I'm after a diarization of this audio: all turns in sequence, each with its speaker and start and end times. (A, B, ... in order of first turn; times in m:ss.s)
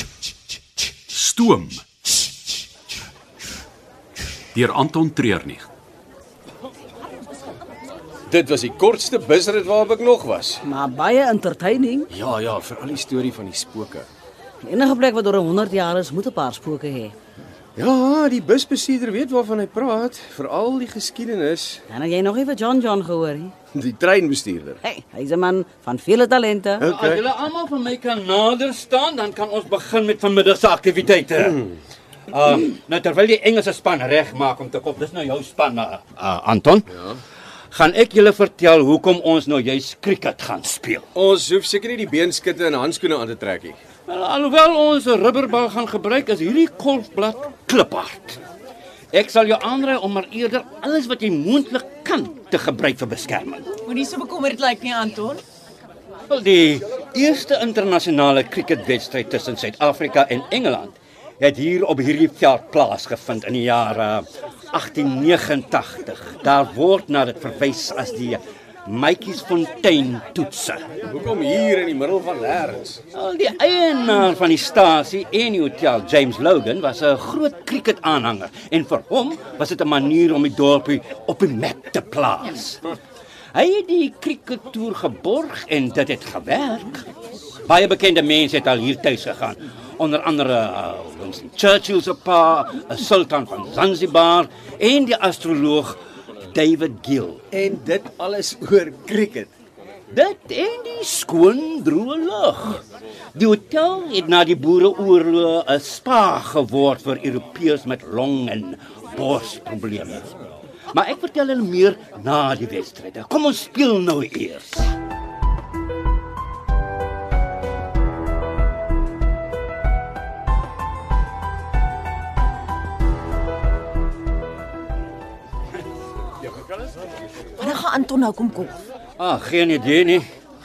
0:01.1-0:01.8 A
0:04.5-0:05.7 A
0:08.3-0:10.6 B
0:10.7-0:12.1 C
0:12.1-0:14.1 B
0:14.6-0:17.1 C
0:17.8-0:21.8 B
0:21.9-0:23.5 C
0:23.7-0:24.8 B
0:24.8-0:26.9 C
0:26.8-0:27.2 B
0:26.8-0:31.7 D
0:32.3-0:36.9 D
0:36.9-0:37.2 B
0:37.7-0:41.1 D
0:41.2-0:43.8 B
0:44.1-0:48.4 D
0:49.1-0:53.7 D
0:53.8-0:55.4 E
0:56.3-1:10.8 D
1:11.0-1:13.0 B
1:13.1-1:22.8 D
1:23.5-1:27.1 D
1:27.6-1:37.4 D
1:37.5-1:39.5 B
1:40.1-1:42.8 D
1:43.3-1:50.3 D
1:50.9-1:54.9 D
2:07.6-2:08.8 E
2:09.2-2:10.3 D